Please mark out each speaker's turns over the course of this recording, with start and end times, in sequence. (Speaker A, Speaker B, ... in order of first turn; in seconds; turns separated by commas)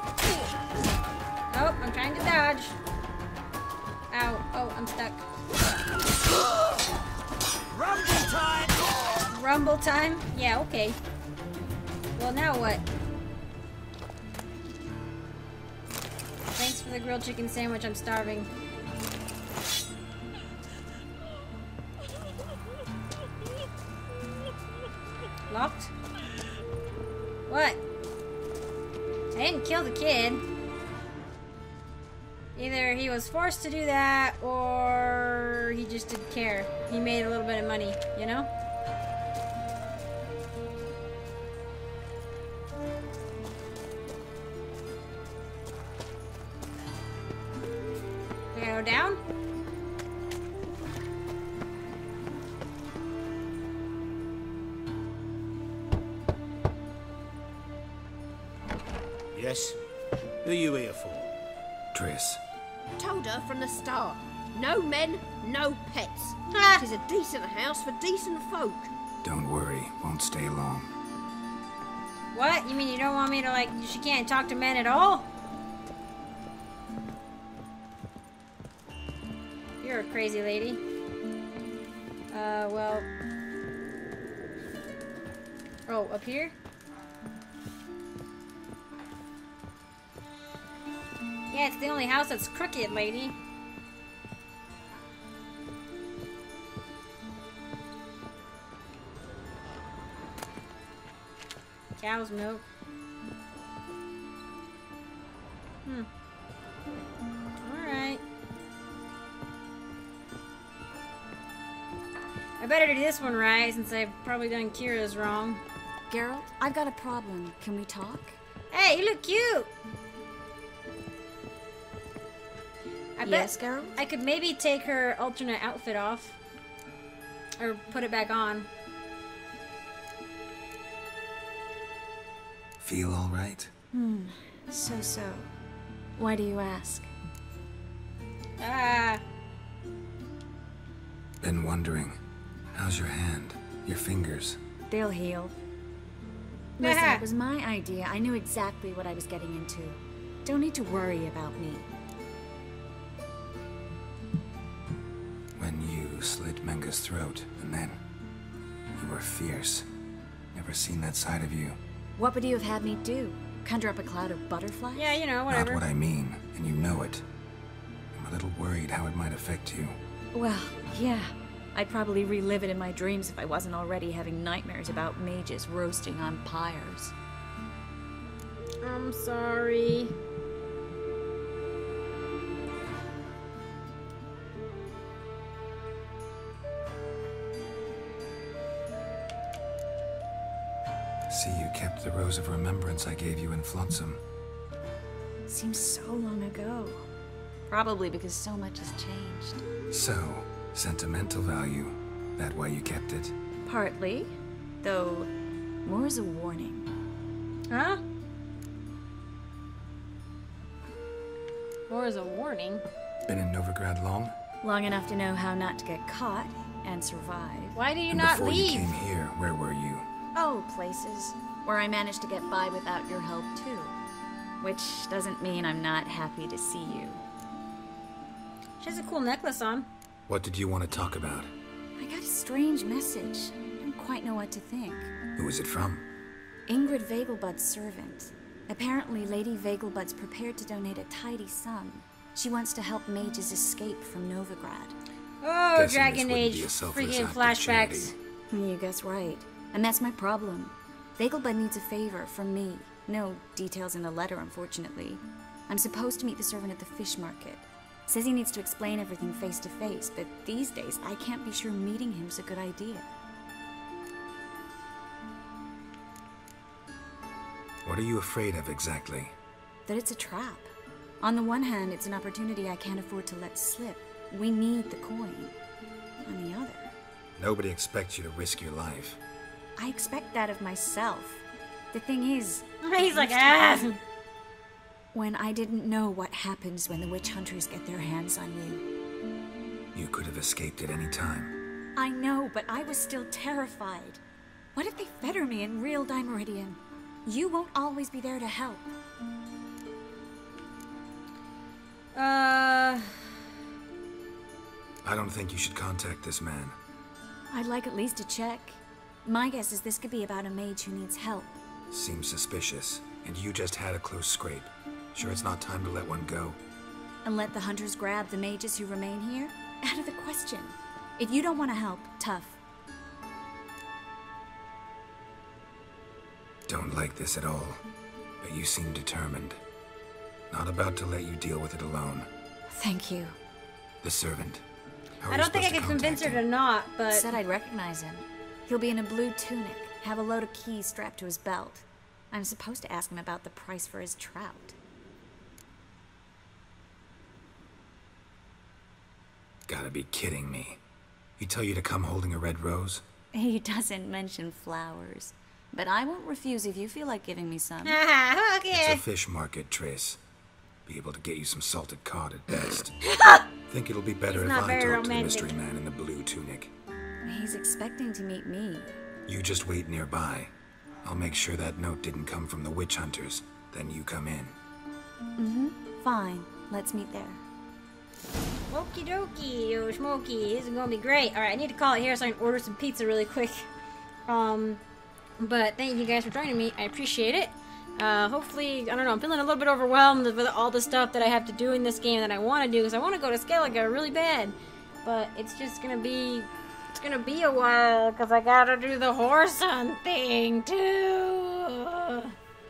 Speaker A: 1.5-2.8, Speaker A: 4.1-5.2, Speaker B: 7.8-8.7, Speaker A: 9.3-11.0, Speaker A: 12.2-12.8, Speaker A: 16.6-18.5, Speaker A: 25.5-25.9, Speaker A: 27.5-27.8, Speaker A: 29.3-30.4, Speaker A: 32.6-38.5, Speaker A: 48.5-49.2, Speaker B: 59.4-59.8, Speaker B: 60.4-61.3, Speaker C: 61.9-62.4, Speaker D: 63.0-68.9, Speaker A: 66.5-66.8, Speaker C: 69.2-70.9, Speaker A: 72.3-75.3, Speaker A: 79.8-80.8, Speaker A: 82.3-83.1, Speaker A: 85.9-86.5, Speaker A: 91.5-93.4, Speaker A: 102.0-102.7, Speaker A: 107.6-108.2, Speaker A: 112.6-115.6, Speaker E: 116.1-118.4, Speaker A: 118.7-119.7, Speaker A: 123.2-126.4, Speaker E: 123.2-124.0, Speaker A: 127.6-128.7, Speaker C: 132.8-133.7, Speaker E: 133.9-135.5, Speaker E: 136.2-137.1, Speaker A: 138.6-139.2, Speaker C: 141.4-142.2, Speaker C: 142.7-144.6, Speaker E: 144.9-145.6, Speaker E: 146.8-151.9, Speaker A: 146.8-147.2, Speaker C: 155.6-158.0, Speaker C: 158.9-159.9, Speaker C: 160.5-161.8, Speaker E: 162.2-165.2, Speaker A: 164.9-165.8, Speaker C: 165.5-167.2, Speaker C: 168.2-170.0, Speaker E: 170.3-177.1, Speaker A: 178.8-180.1, Speaker C: 191.3-194.2, Speaker E: 195.5-197.0, Speaker E: 197.7-199.6, Speaker C: 199.9-203.3, Speaker E: 203.7-205.3, Speaker E: 205.8-206.9, Speaker A: 207.7-208.0, Speaker A: 211.9-212.8, Speaker C: 213.3-214.3, Speaker E: 214.6-217.8, Speaker A: 217.8-218.9, Speaker C: 218.1-220.1, Speaker E: 220.3-224.0, Speaker E: 224.6-227.2, Speaker A: 228.8-229.9, Speaker C: 230.3-231.5, Speaker E: 232.0-235.1, Speaker C: 235.4-236.1, Speaker E: 236.7-244.9, Speaker A: 245.4-248.2, Speaker C: 245.8-248.2, Speaker E: 248.5-263.1, Speaker C: 267.9-269.3, Speaker E: 269.9-275.6, Speaker E: 276.2-276.9, Speaker C: 277.4-279.2, Speaker E: 279.8-284.0, Speaker A: 282.8-283.9, Speaker E: 285.1-288.9, Speaker C: 289.9-291.6, Speaker E: 292.0-294.2, Speaker E: 294.8-298.9, Speaker A: 302.1-303.3, Speaker C: 305.0-306.8, Speaker E: 307.5-311.6, Speaker C: 311.9-316.6, Speaker E: 317.2-322.6, Speaker C: 326.7-327.8, Speaker C: 328.4-329.6, Speaker C: 330.5-332.3, Speaker E: 332.7-333.4, Speaker C: 334.0-334.6, Speaker C: 335.2-336.4, Speaker A: 335.3-337.3, Speaker E: 337.1-344.8, Speaker C: 349.7-350.8, Speaker C: 351.4-353.0, Speaker E: 353.3-358.0, Speaker A: 357.8-359.0, Speaker C: 358.7-360.2, Speaker C: 360.9-362.9, Speaker C: 363.7-366.7, Speaker A: 364.3-365.6, Speaker E: 367.2-368.9, Speaker C: 369.3-370.5, Speaker C: 371.0-374.6, Speaker E: 375.4-377.4, Speaker A: 378.7-383.7, Speaker A: 384.3-384.8, Speaker A: 385.4-402.3